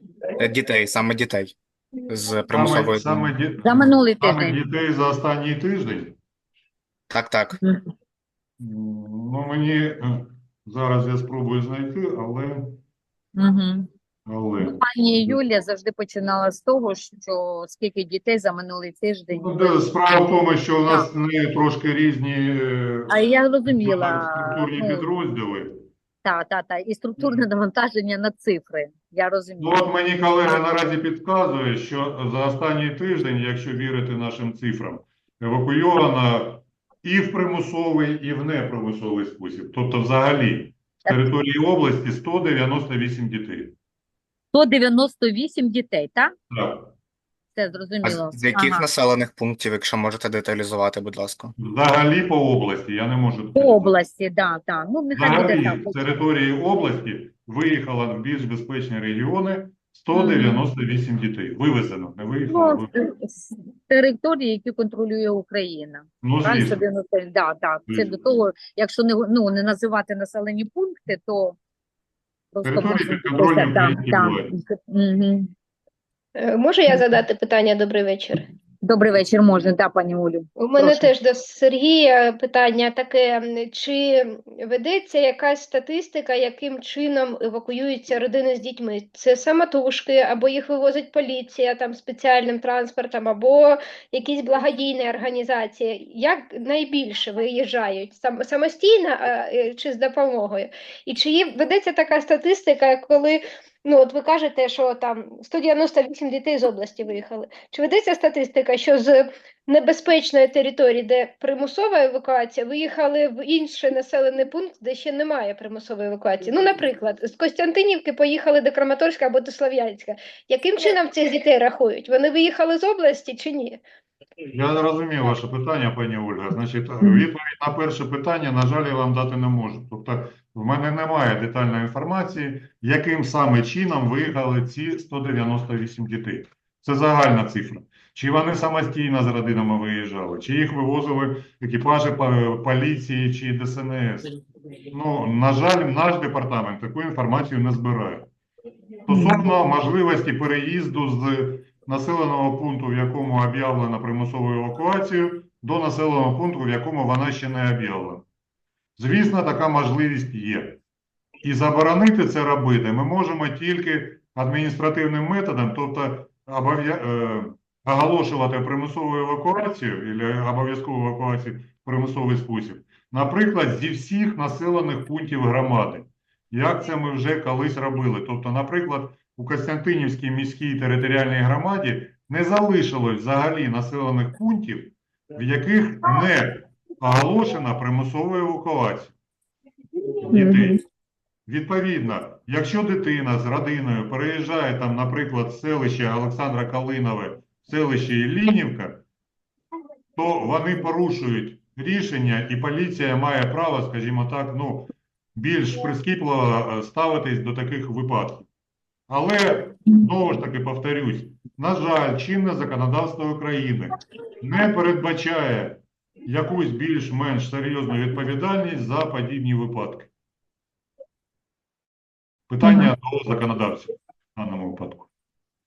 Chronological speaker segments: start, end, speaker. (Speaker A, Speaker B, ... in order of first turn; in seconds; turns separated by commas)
Speaker A: 0.4-1.6, Speaker A: 2.1-3.3, Speaker B: 2.5-6.2, Speaker C: 3.6-4.6, Speaker A: 7.1-7.6, Speaker B: 8.6-12.8, Speaker C: 13.3-13.9, Speaker B: 14.2-15.4, Speaker C: 14.6-19.8, Speaker B: 19.4-23.1, Speaker C: 23.1-25.1, Speaker B: 23.6-25.8, Speaker C: 26.2-29.8, Speaker B: 29.6-43.7, Speaker C: 44.5-46.3, Speaker B: 46.5-46.9, Speaker C: 47.5-48.8, Speaker A: 48.0-51.5, Speaker B: 51.6-54.0, Speaker C: 53.5-56.1, Speaker B: 55.1-62.9, Speaker C: 60.1-60.6, Speaker C: 62.5-71.6, Speaker B: 66.2-66.8, Speaker B: 67.9-68.2, Speaker C: 72.5-75.5, Speaker B: 72.6-74.5, Speaker D: 76.3-78.5, Speaker C: 78.8-81.1, Speaker D: 80.6-123.8, Speaker B: 124.4-144.3, Speaker B: 144.9-148.3, Speaker B: 149.1-158.2, Speaker C: 149.1-149.5, Speaker B: 159.0-160.8, Speaker B: 161.4-189.1, Speaker B: 190.3-190.8, Speaker C: 190.3-190.8, Speaker B: 191.4-199.0, Speaker B: 200.2-208.5, Speaker B: 209.1-220.1, Speaker B: 222.5-225.1, Speaker C: 222.6-222.9